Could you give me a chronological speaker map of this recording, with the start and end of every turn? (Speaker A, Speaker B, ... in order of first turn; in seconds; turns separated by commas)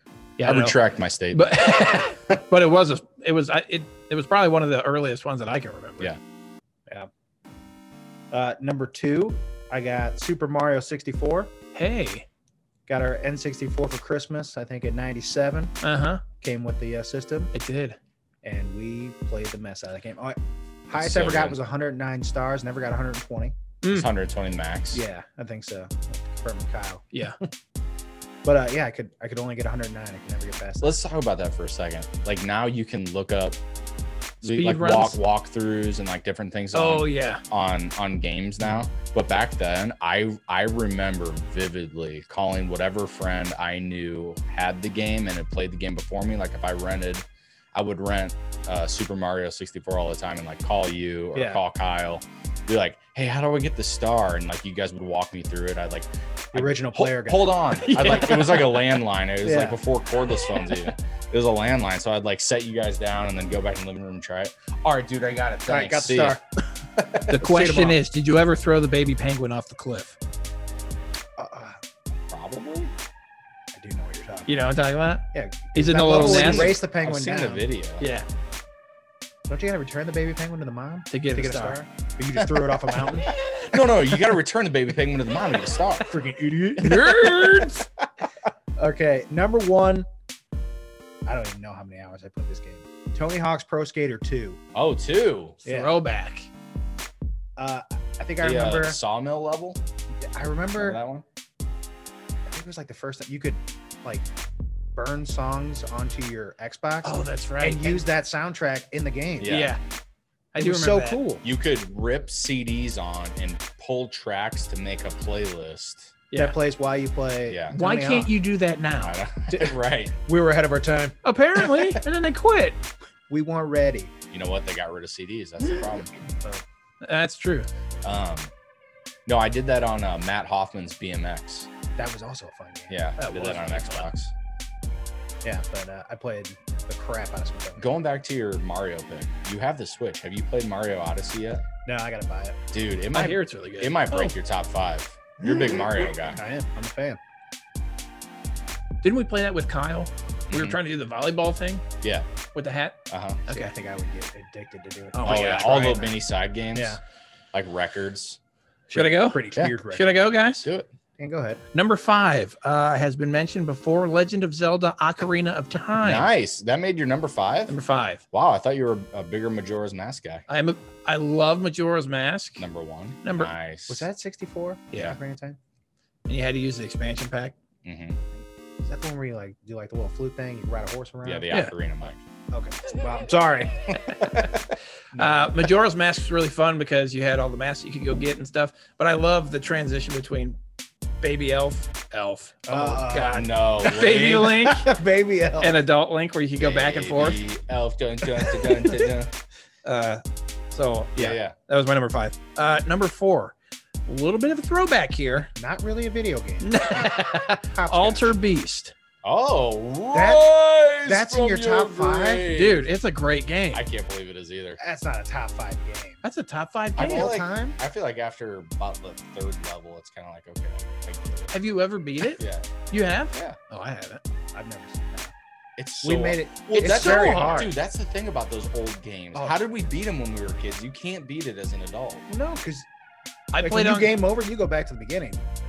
Speaker A: 0.4-0.8, Speaker B: 0.4-1.6, Speaker A: 1.3-6.1, Speaker C: 8.3-11.5, Speaker A: 11.7-12.3, Speaker C: 12.9-15.8, Speaker A: 15.8-16.2, Speaker C: 16.4-17.5, Speaker A: 17.5-18.0, Speaker C: 18.4-23.6, Speaker B: 21.0-21.6, Speaker A: 23.8-24.1, Speaker B: 23.9-25.0, Speaker C: 24.9-27.5, Speaker A: 27.1-27.4, Speaker C: 28.4-31.0, Speaker B: 30.8-33.6, Speaker B: 34.4-66.4, Speaker A: 34.5-35.2, Speaker A: 36.7-37.4, Speaker C: 51.4-51.6, Speaker C: 56.5-57.6, Speaker A: 57.8-58.8, Speaker C: 59.4-59.8, Speaker C: 65.7-66.4, Speaker B: 67.0-67.4, Speaker C: 67.2-68.0, Speaker A: 67.3-70.2, Speaker C: 71.4-71.8, Speaker B: 72.3-72.9, Speaker C: 73.8-74.5, Speaker A: 74.5-76.8, Speaker C: 75.3-77.7, Speaker B: 76.1-78.1, Speaker A: 78.0-78.3, Speaker C: 79.5-83.3, Speaker A: 81.1-81.8, Speaker B: 82.4-82.7, Speaker B: 83.5-86.1, Speaker C: 86.1-87.7, Speaker A: 86.8-87.9, Speaker C: 88.8-90.1, Speaker C: 91.3-94.6, Speaker B: 94.7-95.6, Speaker A: 95.6-96.5, Speaker C: 95.7-95.9, Speaker C: 97.6-99.0, Speaker B: 98.4-99.8, Speaker C: 100.3-101.0, Speaker B: 100.8-101.2, Speaker C: 102.5-104.3, Speaker C: 105.0-109.6, Speaker A: 107.0-108.0, Speaker B: 109.4-109.8, Speaker A: 109.5-109.8, Speaker A: 110.5-111.2, Speaker C: 110.6-111.4, Speaker B: 111.4-116.2, Speaker A: 116.3-116.6, Speaker C: 116.4-118.3, Speaker B: 117.5-117.8, Speaker A: 117.8-119.2, Speaker B: 119.0-120.1, Speaker C: 119.5-121.2, Speaker A: 121.2-122.8, Speaker C: 123.3-124.1, Speaker B: 124.3-126.1, Speaker A: 127.0-127.7, Speaker B: 128.0-128.5, Speaker B: 129.3-131.7, Speaker C: 132.0-133.7, Speaker B: 132.9-134.3, Speaker A: 133.2-134.1, Speaker C: 135.4-137.9, Speaker B: 137.8-141.7, Speaker C: 141.8-142.6, Speaker B: 142.7-146.4, Speaker A: 143.1-144.3, Speaker C: 145.4-147.2, Speaker A: 149.0-151.8, Speaker B: 150.5-150.8, Speaker B: 152.0-152.3, Speaker A: 152.5-153.7, Speaker B: 153.1-153.4, Speaker C: 153.5-156.1, Speaker A: 155.1-156.1, Speaker B: 155.2-157.0, Speaker C: 156.7-157.0, Speaker B: 157.5-158.4, Speaker A: 158.9-160.7, Speaker B: 158.9-159.7, Speaker C: 159.0-160.2, Speaker B: 160.6-160.9, Speaker C: 161.2-161.6, Speaker A: 161.7-166.3, Speaker B: 166.0-167.8, Speaker A: 167.7-168.2, Speaker B: 168.3-170.4, Speaker A: 170.5-172.7, Speaker B: 172.6-174.1, Speaker A: 173.2-173.5, Speaker C: 173.9-175.6, Speaker A: 176.3-177.6, Speaker B: 177.8-178.2, Speaker C: 178.8-181.5, Speaker B: 181.2-182.2, Speaker C: 182.5-184.3, Speaker B: 184.0-184.6, Speaker B: 185.1-185.7, Speaker A: 185.1-190.6, Speaker A: 191.2-194.9, Speaker C: 192.7-193.4, Speaker B: 193.1-194.7, Speaker C: 194.7-195.8, Speaker A: 195.6-197.4, Speaker B: 196.6-199.3, Speaker A: 198.5-199.1, Speaker A: 199.8-203.6, Speaker B: 201.2-201.6, Speaker A: 204.1-205.5, Speaker C: 205.6-208.4, Speaker A: 206.6-208.9, Speaker B: 209.2-212.9, Speaker C: 210.1-210.5, Speaker C: 211.0-212.5, Speaker A: 212.5-213.8, Speaker B: 213.7-214.8, Speaker C: 214.8-216.2, Speaker A: 216.2-217.3, Speaker B: 217.0-221.5, Speaker C: 217.0-217.8, Speaker A: 221.5-224.2, Speaker B: 222.3-222.7, Speaker B: 223.3-223.6, Speaker C: 224.5-225.3, Speaker B: 225.8-232.3, Speaker C: 226.0-227.7, Speaker A: 226.8-227.7, Speaker C: 229.3-229.6, Speaker C: 232.3-232.9, Speaker A: 233.5-234.2, Speaker C: 233.6-235.4